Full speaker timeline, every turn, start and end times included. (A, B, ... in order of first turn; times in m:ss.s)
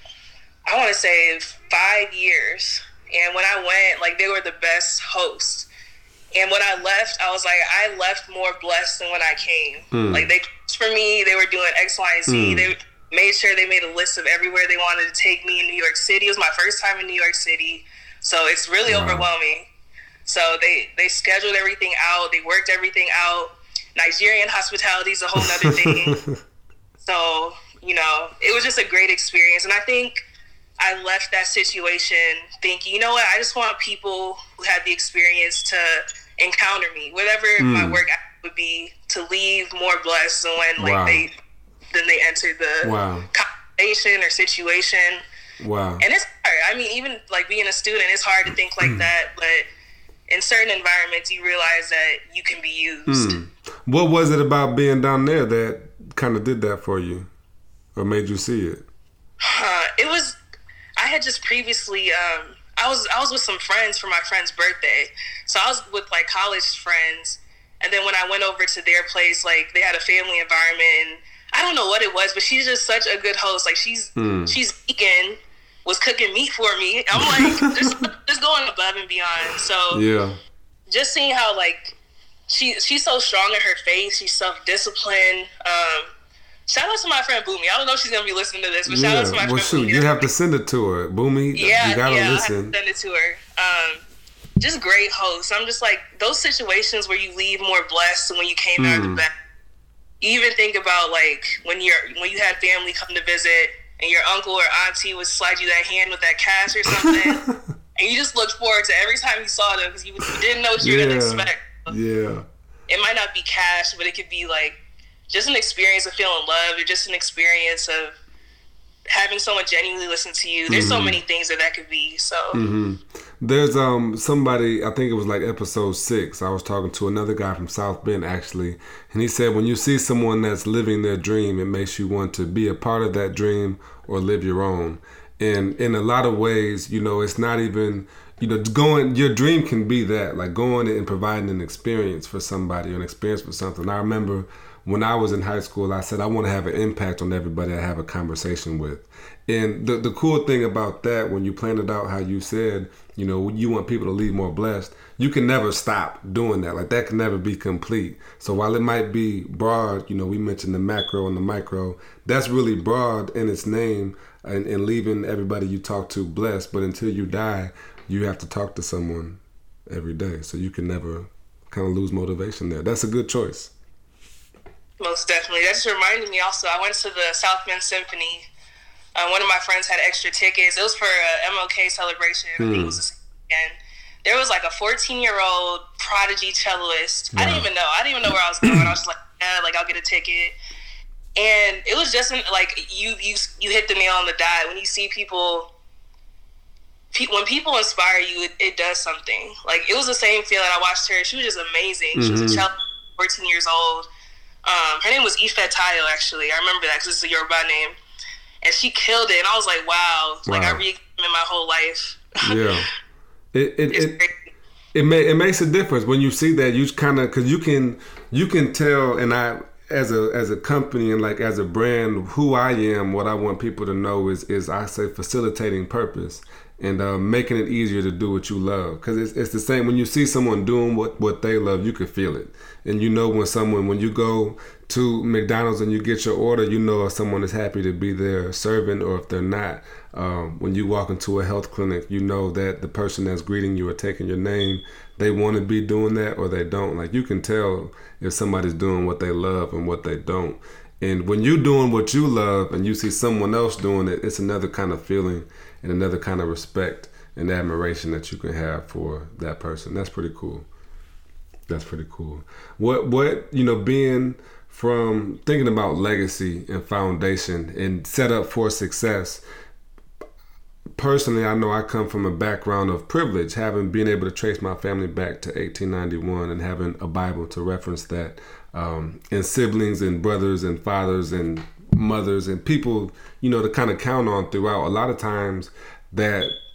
0:00.7-0:05.7 A
0:06.4-0:19.7 A
0:09.9-0:10.3 B
0:12.3-0:12.7 B
0:18.9-0:19.3 B
0:20.2-0:26.2 A
0:25.4-0:26.4 B
0:27.0-0:30.2 A
0:30.8-0:41.3 A
0:37.6-0:38.0 B
0:40.8-0:41.2 B
0:41.9-0:45.2 A
0:42.8-0:43.3 B
0:45.6-0:46.0 B
0:46.0-0:49.7 A
0:50.3-0:53.4 A
0:53.1-0:57.3 B
0:58.0-0:58.9 B
0:59.4-1:00.4 A
1:01.0-1:20.0 A
1:14.2-1:14.6 B
1:17.2-1:17.9 B
1:19.9-1:20.4 B
1:20.9-1:22.0 A
1:22.5-1:26.1 A
1:26.7-1:30.3 A
1:28.9-1:32.8 B
1:31.6-1:34.0 A
1:34.6-1:39.3 A
1:38.8-1:39.2 B
1:40.2-1:47.4 A
1:46.9-1:47.6 B
1:48.0-1:51.9 A
1:50.8-1:52.5 B
1:52.9-1:54.8 A
1:55.3-1:58.2 A
1:59.1-2:02.6 A
2:00.7-2:01.2 B
2:02.5-2:53.7 B
2:55.0-2:58.5 A
2:59.2-3:10.6 A
3:02.6-3:03.0 B
3:07.3-3:07.7 B
3:08.6-3:08.9 B
3:11.4-3:15.7 A
3:17.1-3:24.1 A
3:22.2-3:22.7 B
3:24.6-3:28.0 A
3:28.6-3:32.6 A
3:30.5-3:30.8 B
3:32.4-3:32.9 B
3:33.5-3:34.2 B
3:33.9-3:34.5 A
3:34.9-4:20.7 B
4:21.7-4:29.4 B
4:31.0-4:46.6 B